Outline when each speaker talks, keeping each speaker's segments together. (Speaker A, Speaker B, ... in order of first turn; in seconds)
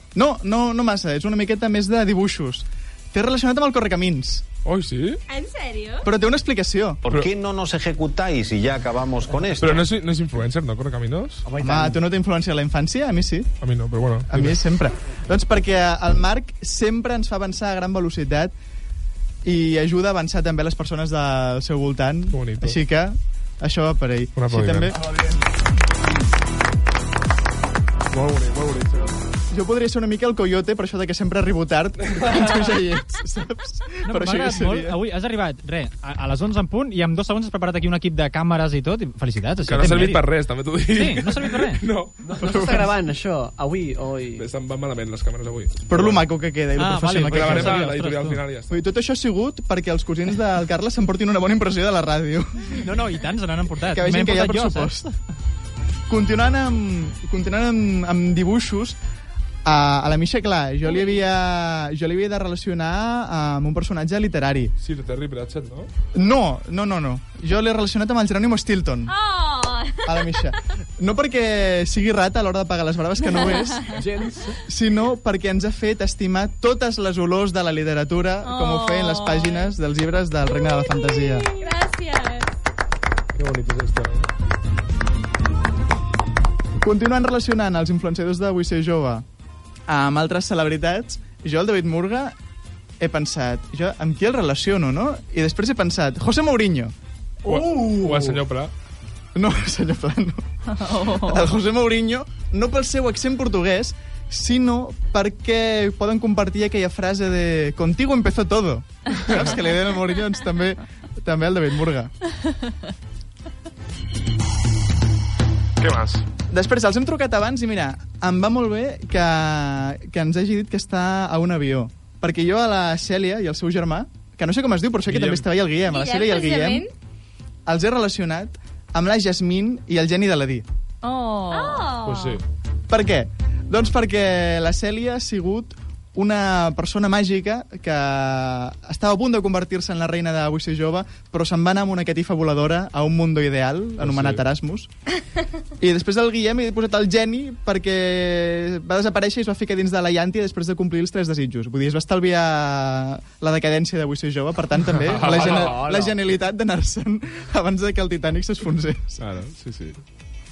Speaker A: 0.1-4.4, 6.0-7.0, 11.6-13.5, 14.3-18.5, 19.4-25.1, 29.5-35.0, 42.4-42.9, 45.9-47.8, 48.7-52.7, 53.9-55.0, 56.1-59.0, 59.6-64.7, 66.1-69.1, 70.0-73.9, 74.7-81.5, 86.8-89.2, 89.9-92.3, 93.0-96.9, 97.5-98.4, 99.3-100.4, 101.2-112.1, 116.5-126.9, 127.7-130.6, 132.9-144.9, 145.8-159.2
Speaker B: 4.6-5.2, 9.6-11.4, 13.6-14.5, 22.3-22.8, 24.3-24.9, 28.1-29.1, 39.6-42.1, 44.4-46.2, 47.2-48.8, 64.8-65.9, 83.3-84.3, 97.5-98.7, 115.8-116.2, 125.1-125.4, 132.0-132.4, 144.0-144.4, 154.9-155.8, 159.2-160.0
Speaker C: 5.3-6.0, 69.1-70.0, 81.6-82.4, 125.8-126.9, 131.5-132.4
Speaker D: 7.0-9.8
Speaker E: 11.4-12.0, 42.2-44.5, 73.9-74.6, 155.2-156.2
Speaker F: 34.0-40.3, 40.9-41.8, 46.8-48.4, 52.8-55.1
Speaker G: 73.3-73.8, 78.5-79.7, 100.7-101.5, 131.0-131.9